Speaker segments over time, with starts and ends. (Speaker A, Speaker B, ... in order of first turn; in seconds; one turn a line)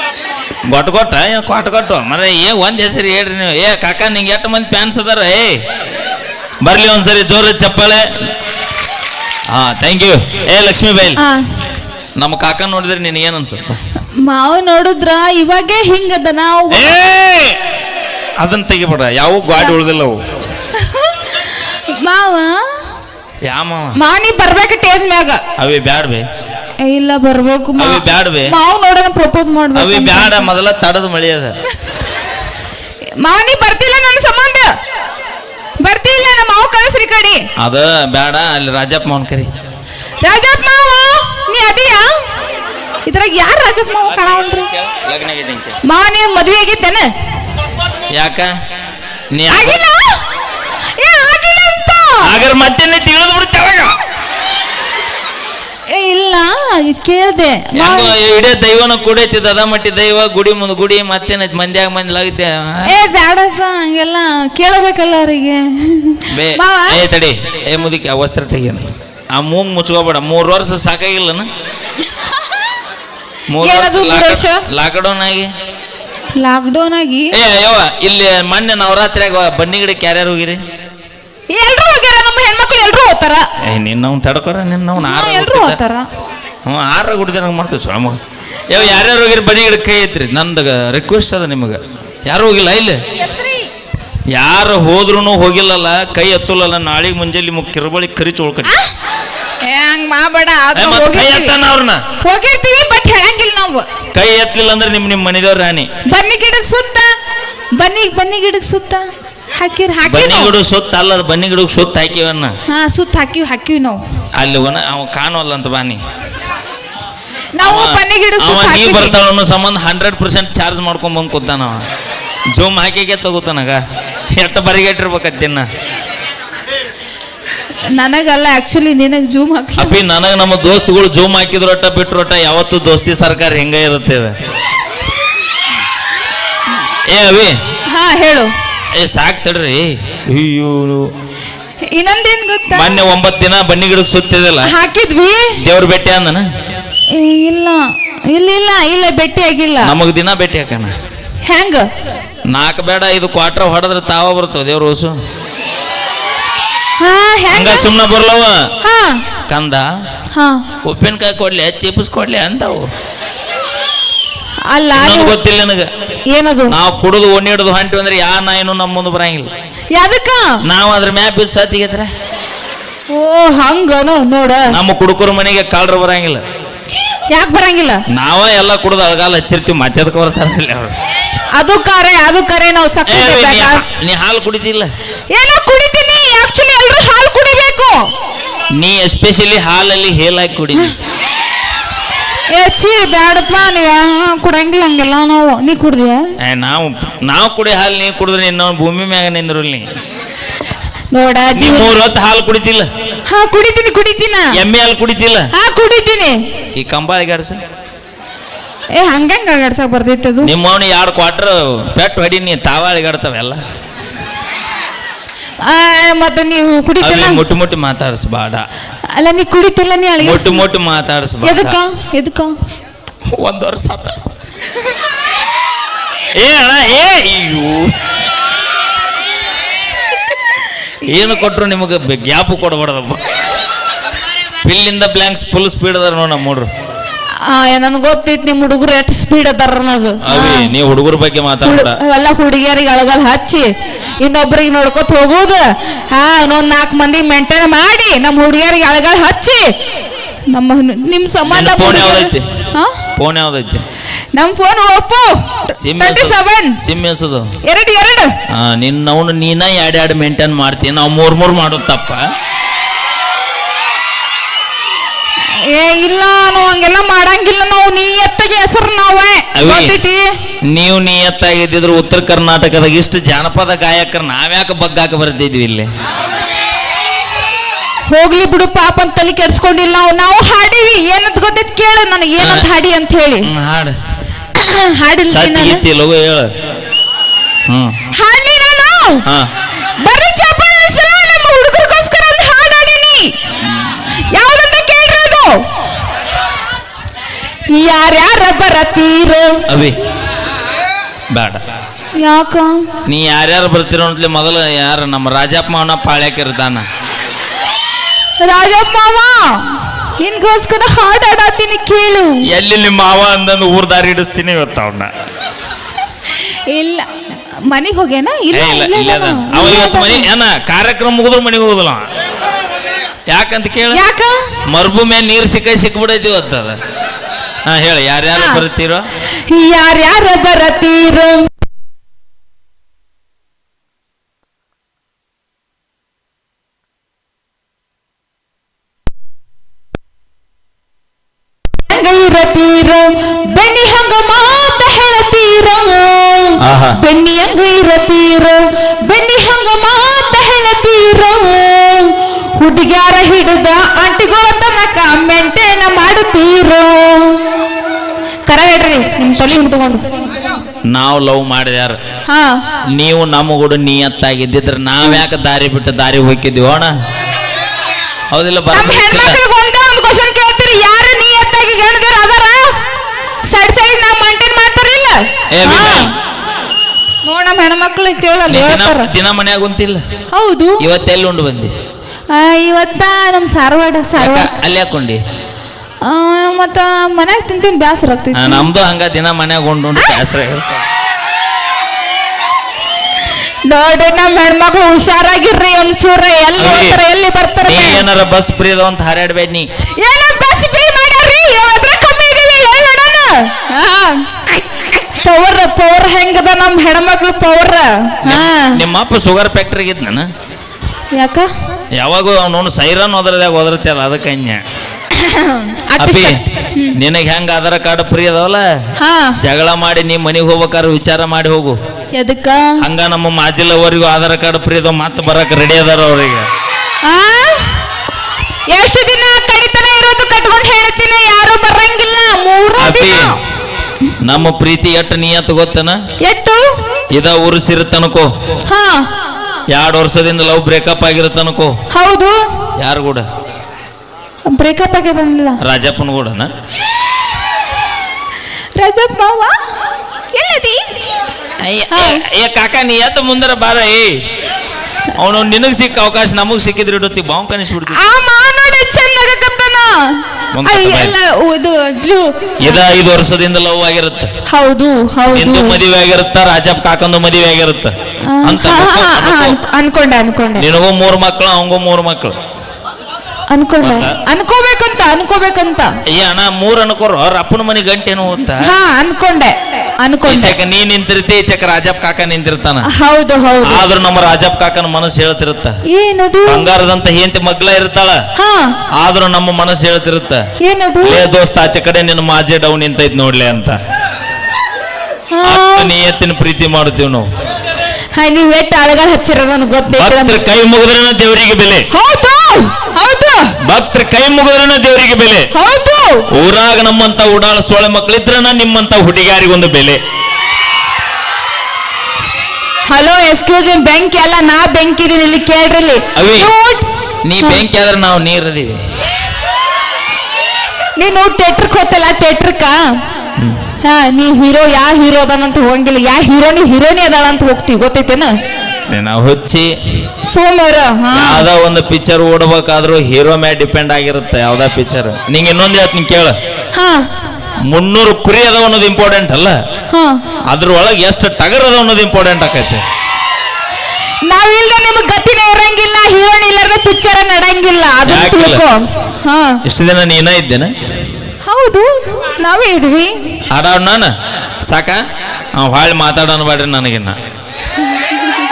Speaker A: 0.7-5.6
Speaker A: 6.6-8.1
Speaker A: 9.5-11.2
Speaker B: 11.2-11.5
Speaker A: 12.2-13.8
Speaker B: 14.2-17.0
Speaker A: 16.7-17.6
Speaker A: 18.4-20.2
Speaker B: 20.7-22.9
Speaker A: 23.5-24.0
Speaker B: 24.0-25.4
Speaker A: 25.6-26.3
Speaker B: 26.8-30.5
Speaker A: 27.8-28.6
Speaker A: 29.8-31.6
Speaker B: 33.2-34.7
Speaker B: 35.8-37.4
Speaker A: 37.6-39.5
Speaker B: 40.2-42.1
Speaker B: 43.1-44.7
Speaker A: 44.9-45.8
Speaker B: 45.8-47.1
Speaker A: 48.1-48.5
Speaker A: 49.3-49.8
Speaker B: 49.5-50.2
Speaker B: 51.0-52.3
Speaker A: 52.2-53.9
Speaker B: 55.9-58.1
Speaker A: 57.8-62.9
Speaker B: 62.9-67.0
Speaker A: 66.3-71.5
Speaker A: 73.5-75.5
Speaker B: 73.6-74.7
Speaker B: 76.4-77.3
Speaker A: 77.3-80.6
Speaker B: 81.5-83.5
Speaker A: 83.7-85.8
Speaker B: 85.0-86.1
Speaker A: 86.7-88.2
Speaker A: 88.7-93.0
Speaker A: 94.3-98.8
Speaker B: 99.6-101.6
Speaker A: 100.8-102.0
Speaker B: 102.2-103.9
Speaker A: 104.1-105.9
Speaker B: 106.1-107.1
Speaker B: 107.8-110.5
Speaker A: 110.0-112.5
Speaker B: 112.7-114.0
Speaker A: 114.4-116.0
Speaker B: 117.5-119.2
Speaker A: 117.6-121.8
Speaker A: 122.5-123.8
Speaker A: 124.3-125.7
Speaker B: 127.9-130.0
Speaker A: 129.8-134.3
Speaker A: 137.1-137.6
Speaker B: 137.9-138.5
Speaker A: 139.0-141.1
Speaker B: 141.9-143.0
Speaker A: 142.7-144.7
Speaker B: 144.6-145.6
Speaker A: 145.6-146.5
Speaker B: 147.1-149.9
Speaker A: 149.8-150.9
Speaker B: 151.4-151.9
Speaker A: 152.4-155.2
Speaker B: 157.0-157.9
Speaker A: 157.5-158.7
Speaker B: 158.8-159.2
Speaker A: 159.5-159.9
Speaker B: 160.3-160.7
Speaker A: 160.8-162.9
Speaker B: 164.7-165.3
Speaker A: 164.9-165.9
Speaker B: 166.3-166.8
Speaker A: 166.7-169.5
Speaker B: 169.9-170.6
Speaker A: 170.6-172.1
Speaker B: 173.1-174.7
Speaker A: 174.7-176.4
Speaker B: 177.3-178.0
Speaker A: 178.1-180.9
Speaker B: 181.5-183.8
Speaker A: 183.1-184.9
Speaker B: 185.3-188.1
Speaker A: 188.8-190.9
Speaker B: 192.5-196.3
Speaker A: 196.4-199.9
Speaker B: 201.1-201.9
Speaker A: 201.6-202.9
Speaker B: 203.3-204.6
Speaker A: 204.5-205.5
Speaker B: 205.6-206.4
Speaker A: 206.8-207.6
Speaker B: 208.9-210.5
Speaker A: 210.4-213.6
Speaker B: 215.6-217.4
Speaker A: 217.0-218.7
Speaker B: 219.2-220.7
Speaker A: 220.2-221.8
Speaker B: 221.4-222.5
Speaker A: 223.3-224.3
Speaker A: 226.4-227.9
Speaker A: 231.1-233.2
Speaker A: 234.6-236.7
Speaker B: 237.4-240.7
Speaker A: 240.2-242.0
Speaker B: 241.6-243.7
Speaker B: 244.2-249.7
Speaker B: 250.5-253.0
Speaker A: 251.5-252.5
Speaker A: 253.2-253.8
Speaker B: 254.3-256.8
Speaker A: 255.8-257.5
Speaker B: 257.6-258.3
Speaker A: 258.5-262.2
Speaker B: 265.7-270.3
Speaker A: 269.6-270.0
Speaker A: 270.7-275.9
Speaker B: 278.1-283.5
Speaker A: 282.4-282.7
Speaker A: 283.4-284.0
Speaker B: 284.5-285.8
Speaker A: 285.3-286.5
Speaker A: 287.7-288.0
Speaker B: 288.1-289.2
Speaker A: 289.2-289.5
Speaker B: 290.0-295.6
Speaker B: 297.7-299.6
Speaker A: 299.7-300.0
Speaker A: 301.3-301.6
Speaker B: 302.2-302.9
Speaker A: 303.1-306.9
Speaker B: 308.4-312.4
Speaker A: 312.5-315.1
Speaker B: 316.3-317.1
Speaker B: 317.7-320.3
Speaker A: 318.5-322.0
Speaker A: 323.3-324.0
Speaker B: 323.9-324.4
Speaker A: 324.7-326.8
Speaker A: 327.7-329.1
Speaker B: 328.3-328.6
Speaker B: 329.5-331.5
Speaker B: 341.9-357.6
Speaker A: 346.6-347.0
Speaker B: 358.5-360.4
Speaker A: 360.9-362.0
Speaker B: 362.3-362.6
Speaker A: 362.9-366.9
Speaker A: 368.3-369.4
Speaker B: 368.7-372.8
Speaker B: 373.5-376.1
Speaker A: 375.5-376.1
Speaker B: 377.2-379.1
Speaker A: 378.5-380.0
Speaker B: 380.3-380.8
Speaker A: 380.8-381.7
Speaker B: 382.3-384.5
Speaker A: 384.2-385.2
Speaker B: 386.0-388.7
Speaker A: 388.3-390.8
Speaker B: 390.0-390.2
Speaker B: 393.7-398.1
Speaker A: 396.6-397.0
Speaker A: 397.7-399.7
Speaker B: 400.0-404.6
Speaker B: 405.2-408.8
Speaker A: 408.2-410.3
Speaker B: 411.1-411.5
Speaker A: 411.9-414.6
Speaker B: 415.1-417.0
Speaker A: 416.0-416.4
Speaker A: 416.9-418.7
Speaker B: 419.0-419.4
Speaker A: 419.4-421.8
Speaker B: 422.2-422.8
Speaker A: 422.8-426.5
Speaker B: 427.0-427.9
Speaker B: 428.7-433.4
Speaker A: 432.8-433.4
Speaker A: 434.2-436.0
Speaker B: 436.2-436.7
Speaker A: 437.1-438.3
Speaker B: 438.7-439.1
Speaker A: 439.7-441.7
Speaker B: 441.9-442.4
Speaker A: 442.8-443.3
Speaker B: 444.5-445.6
Speaker A: 445.6-446.5
Speaker B: 448.8-449.6
Speaker B: 450.3-451.0
Speaker A: 451.6-454.1
Speaker B: 451.9-452.2
Speaker A: 455.2-458.0
Speaker B: 457.9-462.8
Speaker A: 460.5-461.1
Speaker A: 462.6-464.3
Speaker B: 464.5-465.8
Speaker A: 465.3-467.9
Speaker B: 468.3-470.6
Speaker A: 468.4-469.6
Speaker A: 470.6-472.4
Speaker B: 473.5-475.9
Speaker A: 473.8-474.2
Speaker A: 476.1-478.7
Speaker B: 478.6-480.6
Speaker A: 480.3-482.9
Speaker B: 482.9-483.9
Speaker A: 483.6-485.8
Speaker B: 485.9-486.7
Speaker A: 486.5-488.2
Speaker B: 488.4-488.8
Speaker A: 488.9-490.4
Speaker B: 490.6-491.3
Speaker A: 491.0-493.8
Speaker B: 495.3-495.9
Speaker A: 495.4-497.3
Speaker B: 498.1-500.4
Speaker A: 499.9-501.9
Speaker B: 501.9-503.5
Speaker A: 503.6-505.5
Speaker B: 505.5-506.2
Speaker A: 506.3-510.0
Speaker B: 512.9-517.6
Speaker A: 516.1-516.5
Speaker A: 517.2-518.8
Speaker B: 521.0-522.8
Speaker B: 523.8-528.3
Speaker A: 528.9-529.7
Speaker B: 530.2-531.5
Speaker A: 531.1-536.4
Speaker B: 536.7-537.1
Speaker A: 537.7-539.6
Speaker B: 539.9-540.3
Speaker A: 540.5-542.8
Speaker B: 544.3-549.6
Speaker A: 548.1-548.6
Speaker A: 549.6-550.7
Speaker B: 551.5-553.1
Speaker A: 553.5-554.1
Speaker A: 554.6-555.0
Speaker A: 555.6-557.2